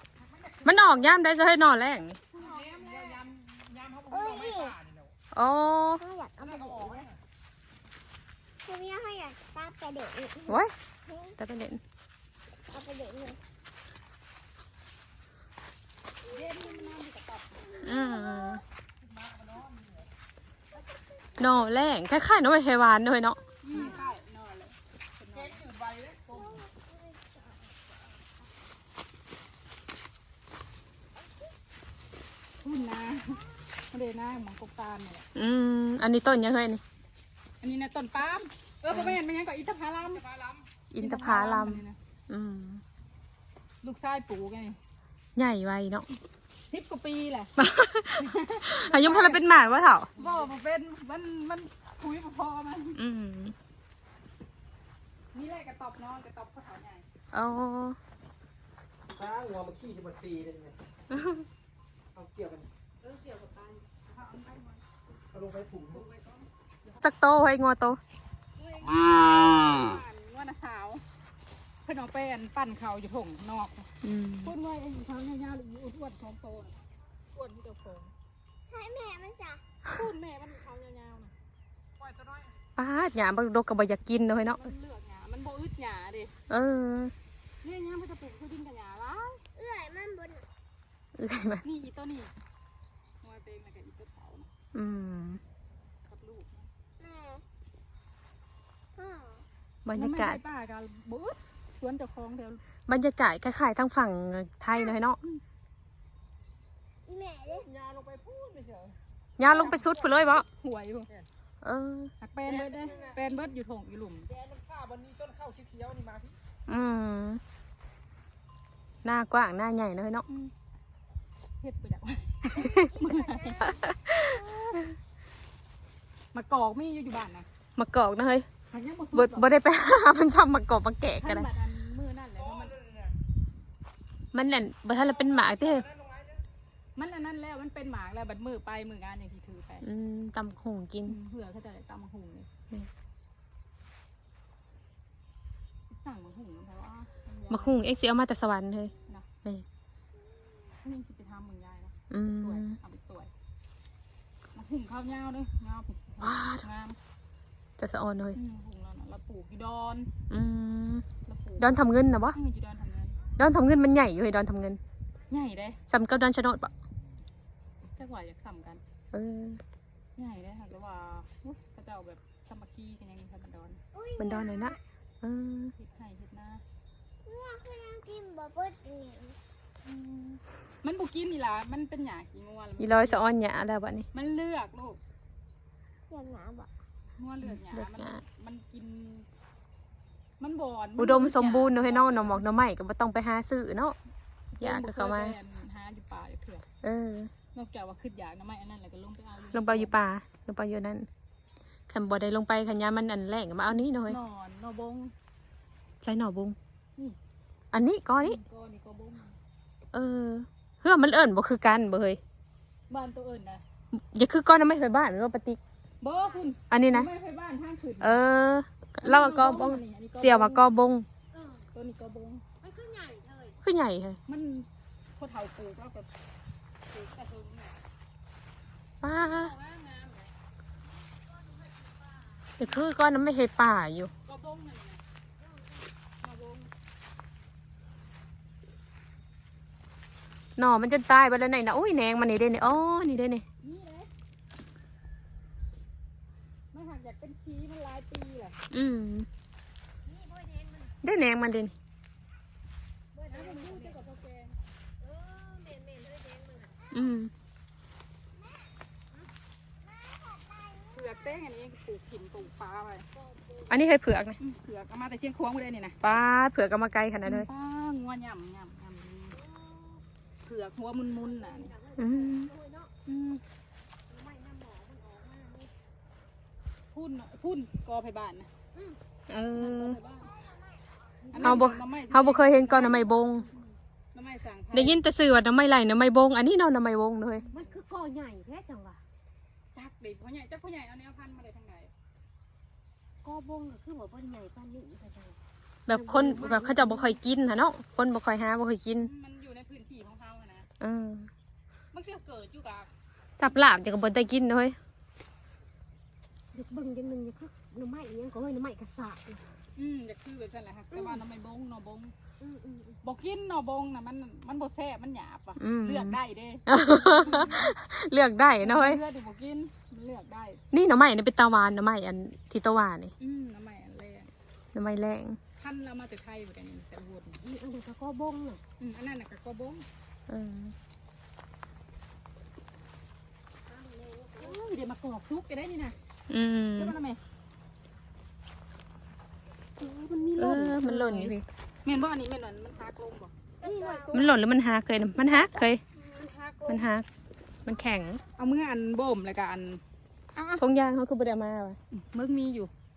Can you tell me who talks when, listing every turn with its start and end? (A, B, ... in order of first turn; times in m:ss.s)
0:00.2-0:00.9 A
0:00.6-0:02.2 B
0:02.8-0:05.0 C
0:04.1-0:04.8 D
0:05.3-0:06.0 B
0:06.0-0:07.1 D
0:06.5-0:07.0 C
0:08.6-0:11.4 D
0:10.5-0:10.7 B
0:11.4-0:11.8 B
0:12.7-0:13.4 D
0:16.2-0:17.6 A
0:17.8-0:18.6 B
0:17.9-0:18.3 D
0:21.4-0:23.4 B
0:23.6-0:25.6 A
0:26.1-0:27.4 D
0:32.6-0:35.3 A
0:35.3-0:36.8 B
0:37.6-0:40.4 A
0:40.9-0:42.8 B
0:41.0-0:42.0 A
0:43.8-0:44.8 A
0:45.4-0:46.1 B
0:46.7-0:47.5 A
0:47.6-0:50.1 B
0:48.2-0:49.4 A
0:50.2-0:53.0 A
0:53.0-0:53.5 B
0:55.3-0:57.0 A
0:57.3-0:58.0 B
0:59.1-1:00.8 C
1:02.1-1:02.7 C
1:03.0-1:04.8 A
1:05.3-1:06.0 C
1:05.9-1:06.5 A
1:07.0-1:08.0 B
1:08.6-1:11.0 A
1:11.8-1:13.9 A
1:14.0-1:14.5 B
1:14.4-1:16.8 A
1:17.3-1:18.1 A
1:18.7-1:19.6 D
1:19.9-1:21.3 A
1:22.8-1:24.6 B
1:24.6-1:26.3 A
1:26.5-1:27.1 B
1:27.6-1:29.4 A
1:29.6-1:30.4 D
1:31.2-1:31.6 B
1:31.6-1:32.3 A
1:33.2-1:34.5 A
1:34.7-1:35.4 B
1:36.1-1:36.7 A
1:37.0-1:37.4 D
1:39.0-1:39.4 D
1:39.8-1:40.4 B
1:39.9-1:42.6 A
1:42.9-1:45.2 B
1:47.0-1:47.7 D
1:47.8-1:48.9 C
1:49.4-1:50.4 B
1:49.5-1:51.1 A
1:51.6-1:52.1 B
1:52.2-1:54.3 A
1:54.4-1:56.4 C
1:56.7-1:57.4 B
1:59.0-2:00.2 B
2:01.6-2:03.7 A
2:02.5-2:03.7 D
2:03.6-2:04.4 B
2:06.3-2:07.5 A
2:07.8-2:08.5 B
2:08.7-2:09.5 A
2:09.1-2:11.5 B
2:11.2-2:12.8 A
2:14.3-2:15.9 B
2:17.0-2:19.8 A
2:19.8-2:21.2 B
2:21.1-2:22.5 A
2:25.9-2:27.8 A
2:27.5-2:29.6 B
2:30.8-2:33.3 A
2:32.1-2:32.8 B
2:34.5-2:37.0 A
2:36.2-2:36.6 B
2:37.8-2:38.4 B
2:38.4-2:40.1 A
2:40.3-2:41.0 B
2:41.2-2:41.8 A
2:41.6-2:42.4 B
2:42.3-2:43.2 A
2:43.4-2:44.8 B
2:45.3-2:45.8 A
2:45.9-2:46.7 B
2:48.0-2:48.8 A
2:49.1-2:49.6 B
2:50.2-2:53.8 A
2:53.9-2:54.8 D
2:54.2-2:55.7 B
2:55.8-2:56.6 A
2:57.2-2:59.4 D
2:59.9-3:03.3 A
3:02.8-3:04.1 B
3:04.1-3:05.0 A
3:06.1-3:06.7 D
3:07.2-3:09.2 A
3:07.4-3:08.2 B
3:10.4-3:12.4 A
3:11.0-3:14.0 B
3:14.5-3:16.6 A
3:14.6-3:15.3 B
3:16.8-3:17.3 B
3:17.5-3:19.9 A
3:19.5-3:21.1 B
3:21.9-3:24.2 B
3:23.7-3:25.1 A
3:26.0-3:26.6 B
3:27.7-3:28.4 B
3:28.2-3:29.3 A
3:29.9-3:32.2 B
3:32.9-3:33.6 A
3:33.9-3:35.6 B
3:36.0-3:38.2 A
3:36.7-3:37.1 B
3:38.0-3:41.1 B
3:39.0-3:40.6 A
3:41.3-3:41.6 E
3:41.7-3:42.4 A
3:42.6-3:43.6 E
3:43.6-3:44.2 B
3:44.3-3:46.1 A
3:46.9-3:47.8 A
3:49.0-3:49.5 B
3:49.1-3:50.3 A
3:52.6-3:54.1 B
3:54.2-3:55.0 A
3:56.2-3:56.7 A
4:00.6-4:03.4 B
4:03.6-4:04.1 A
4:06.7-4:08.5 A
4:08.7-4:09.3 B
4:10.0-4:11.0 E
4:11.0-4:11.7 B
4:13.1-4:14.0 E
4:13.3-4:14.6 A
4:15.0-4:16.9 E
4:16.9-4:17.3 B
4:20.1-4:20.9 D
4:20.9-4:23.1 A
4:23.7-4:24.4 B
4:24.4-4:26.0 A
4:26.0-4:27.5 B
4:27.2-4:29.4 A
4:29.4-4:30.0 E
4:30.4-4:31.7 A
4:31.3-4:32.9 E
4:32.0-4:32.5 B
4:33.1-4:33.4 B
4:34.1-4:35.7 E
4:36.9-4:38.5 A
4:39.3-4:40.0 B
4:39.6-4:40.3 A
4:41.2-4:41.6 E
4:41.3-4:43.1 A
4:41.4-4:43.5 B
4:44.1-4:45.0 A
4:44.7-4:47.4 B
4:47.4-4:47.8 A
4:47.5-4:49.0 E
4:49.7-4:51.9 A
4:53.2-4:55.4 E
4:55.9-4:59.1 B
4:55.9-4:57.2 E
4:59.0-5:00.7 A
5:00.8-5:01.3 B
5:01.9-5:02.9 A
5:03.4-5:04.8 B
5:06.5-5:09.4 E
5:09.8-5:12.1 A
5:10.9-5:11.2 E
5:12.4-5:13.0 E
5:13.0-5:17.7 A
5:15.6-5:19.0 B
5:18.6-5:20.6 A
5:20.7-5:23.1 B
5:23.2-5:24.3 A
5:24.7-5:25.4 B
5:25.6-5:27.4 A
5:27.4-5:28.6 E
5:28.8-5:29.8 A
5:30.3-5:30.7 B
5:33.7-5:34.6 E
5:34.4-5:36.0 A
5:36.3-5:36.9 B
5:36.8-5:37.2 A
5:39.8-5:43.3 A
5:40.4-5:41.4 B
5:43.6-5:44.2 D
5:43.6-5:44.0 E
5:44.1-5:45.8 B
5:45.9-5:46.9 A
5:46.7-5:47.0 B
5:47.6-5:48.2 B
5:48.4-5:49.8 A
5:50.4-5:50.6 A
5:50.6-5:51.8 B
5:52.0-5:52.7 A